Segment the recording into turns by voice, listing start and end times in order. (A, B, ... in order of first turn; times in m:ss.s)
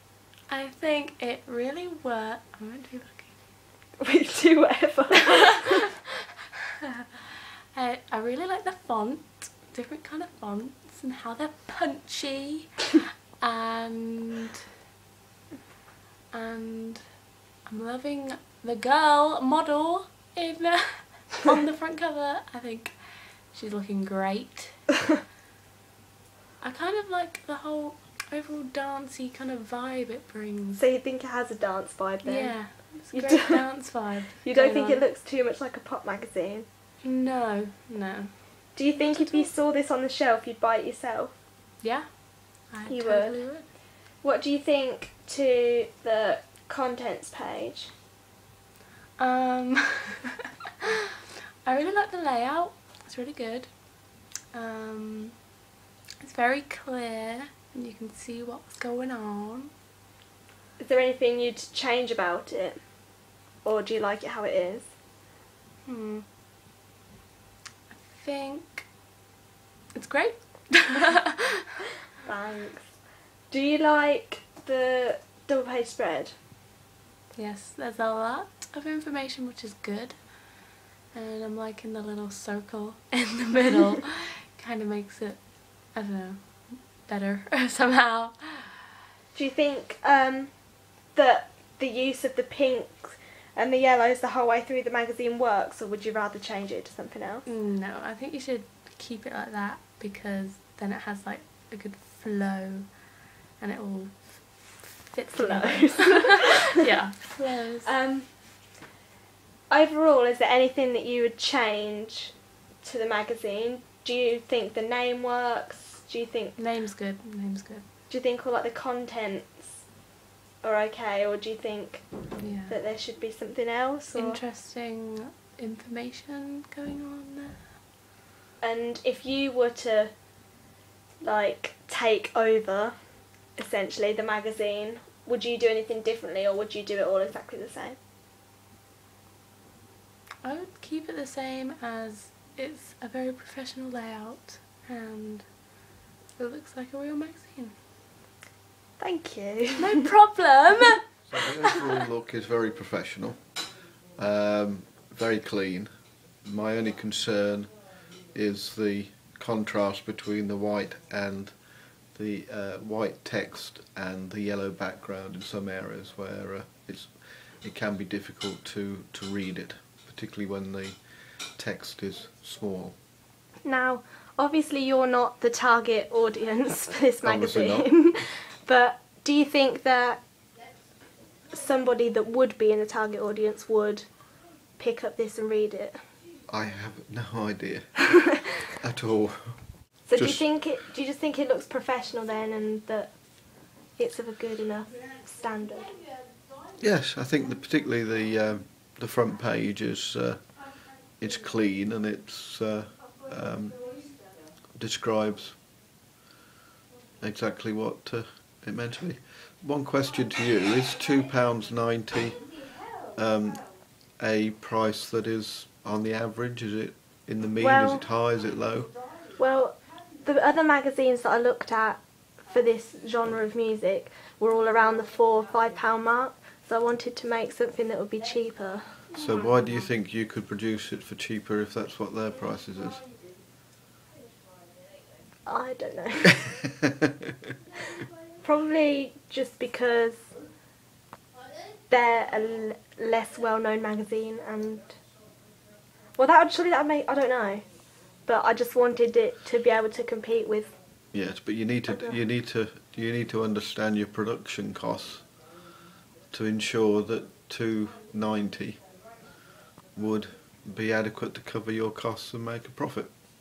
0:00.5-0:03.4 A
0:04.0-0:05.8 B
0:07.7-0:14.5 A
0:16.3-0:24.9 A
0:26.6-0:30.8 A
0:30.8-0:33.9 B
0:32.2-0:35.0 A
0:34.4-0:36.6 B
0:37.0-0:39.5 A
0:38.7-0:41.4 B
0:41.8-0:43.7 A
0:42.8-0:47.9 B
0:49.2-0:50.2 A
0:51.6-0:55.5 A
0:56.2-0:59.7 A
1:00.8-1:04.9 B
1:05.8-1:06.2 A
1:07.9-1:08.9 A
1:09.9-1:11.5 A
1:12.2-1:16.3 B
1:17.3-1:28.8 A
1:29.3-1:37.4 B
1:37.4-1:47.9 A
1:45.3-1:46.8 B
1:47.8-1:48.7 B
1:49.7-1:56.6 B
1:56.6-1:57.8 A
1:58.1-2:00.0 B
2:00.6-2:04.4 B
2:02.4-2:02.8 A
2:04.1-2:07.6 A
2:08.6-2:10.6 B
2:11.2-2:18.0 B
2:20.4-2:27.7 A
2:29.0-2:30.0 B
2:29.8-2:31.1 A
2:31.3-2:53.0 C
2:53.6-3:00.3 B
2:57.2-2:58.1 C
3:01.5-3:06.1 B
3:06.5-3:10.5 C
3:10.1-3:16.0 B
3:16.8-3:24.1 C
3:24.7-3:25.6 C
3:27.2-3:39.0 C
3:37.6-3:38.0 B
3:39.4-3:49.1 B
3:49.1-3:53.1 C
3:55.4-3:56.4 B
3:58.4-4:00.4 B
4:01.9-4:05.0 B
4:06.2-4:10.8 B
4:11.1-4:15.3 C
4:11.9-4:12.2 B
4:16.3-4:18.8 C
4:19.9-4:23.1 C